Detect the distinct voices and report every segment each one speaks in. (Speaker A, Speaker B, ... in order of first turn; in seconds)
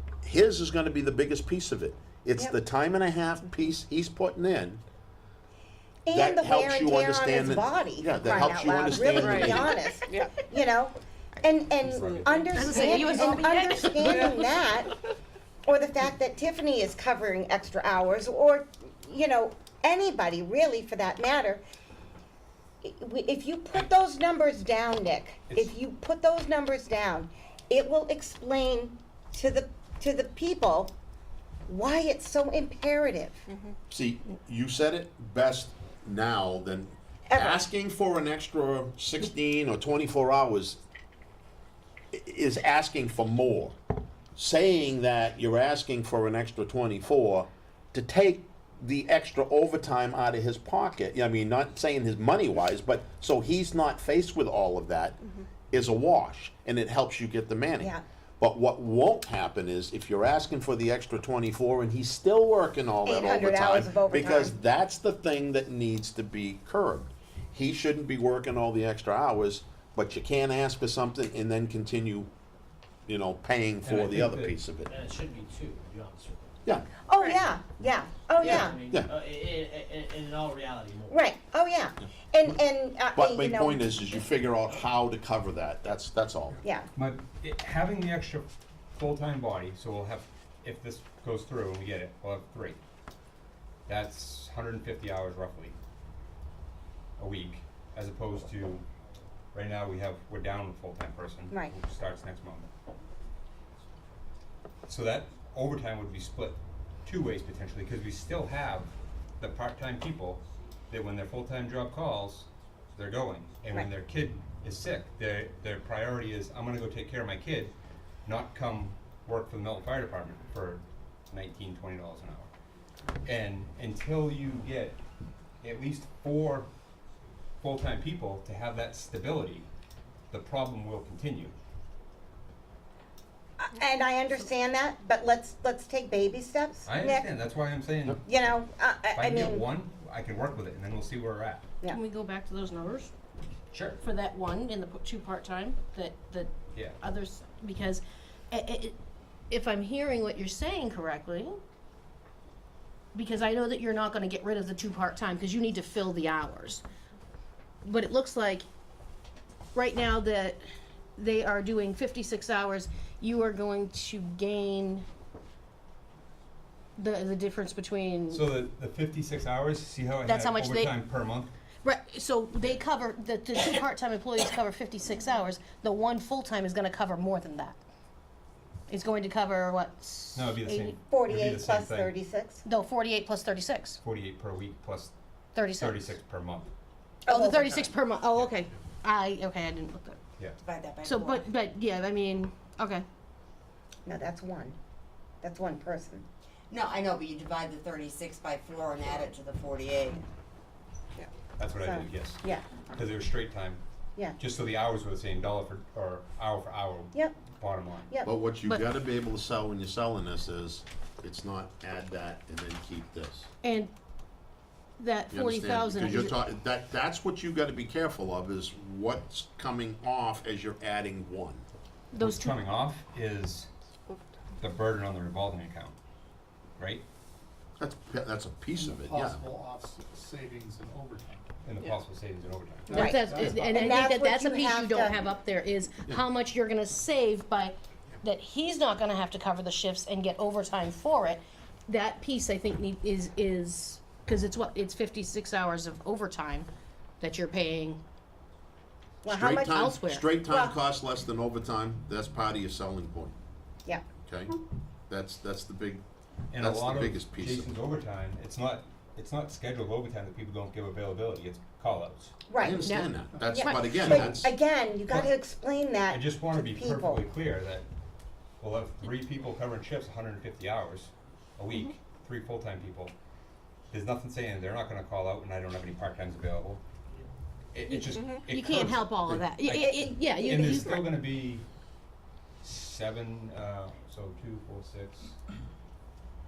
Speaker A: 0.2-4.8, 6.1-9.7, 33.9-40.8, 42.1-43.8, 44.4-55.2, 55.7-72.3, 73.0-74.9, 78.5-79.1, 83.2-86.6, 208.2-213.5, 215.3-221.6, 227.8-229.4, 249.3-253.3, 254.2-254.5, 255.1-256.0, 256.6-257.7, 262.6-264.5
Speaker B: 6.1-14.9, 15.7-21.6, 22.8-30.9, 31.7-33.5, 37.3-37.7, 63.0-64.5, 77.0-78.8, 81.1-84.2, 133.6-137.4, 138.2-139.7, 181.1-182.6, 187.3-187.7, 194.0-194.8, 195.4-196.2, 201.2-202.7, 232.9-235.2, 249.2-249.8, 250.5-250.8, 262.5-262.9, 263.5-267.2
Speaker C: 9.2-9.5, 12.5-14.3, 141.9-143.1, 144.0-149.0, 149.5-151.6, 153.1-156.8, 157.8-158.7, 159.7-160.6, 161.2-165.1, 167.0-168.5, 170.2-171.0, 171.8-177.8, 178.9-181.0, 182.6-184.0, 185.5-186.1, 187.3-190.2, 191.0-193.1, 213.6-213.9, 215.0-216.4, 222.1-222.6, 233.0-246.7, 247.2-248.0, 249.7-250.3, 262.8-263.8, 277.9-281.1
Speaker D: 11.8-13.2, 73.8-74.5, 87.0-92.8, 93.9-95.8, 97.2-98.8, 99.5-102.7, 104.9-117.7, 118.2-122.5, 123.2-125.0, 125.6-126.7, 127.6-129.7, 130.3-131.5, 136.8-138.2, 139.1-141.7, 143.7-144.0, 146.7-147.0, 168.3-171.5, 180.3-182.1, 184.0-185.1, 185.7-186.7, 201.6-203.8, 204.4-208.1, 222.1-223.7, 224.6-225.9, 226.8-227.0, 231.6-233.1, 256.5-262.4, 264.1-264.5, 266.1-267.9, 268.6-273.1, 273.9-276.8, 277.7-281.7, 282.6-285.4
Speaker E: 74.9-76.3, 78.5-81.1
Speaker F: 190.6-191.4, 196.7-200.2
Speaker G: 228.7-231.5, 232.9-234.2, 263.3-263.6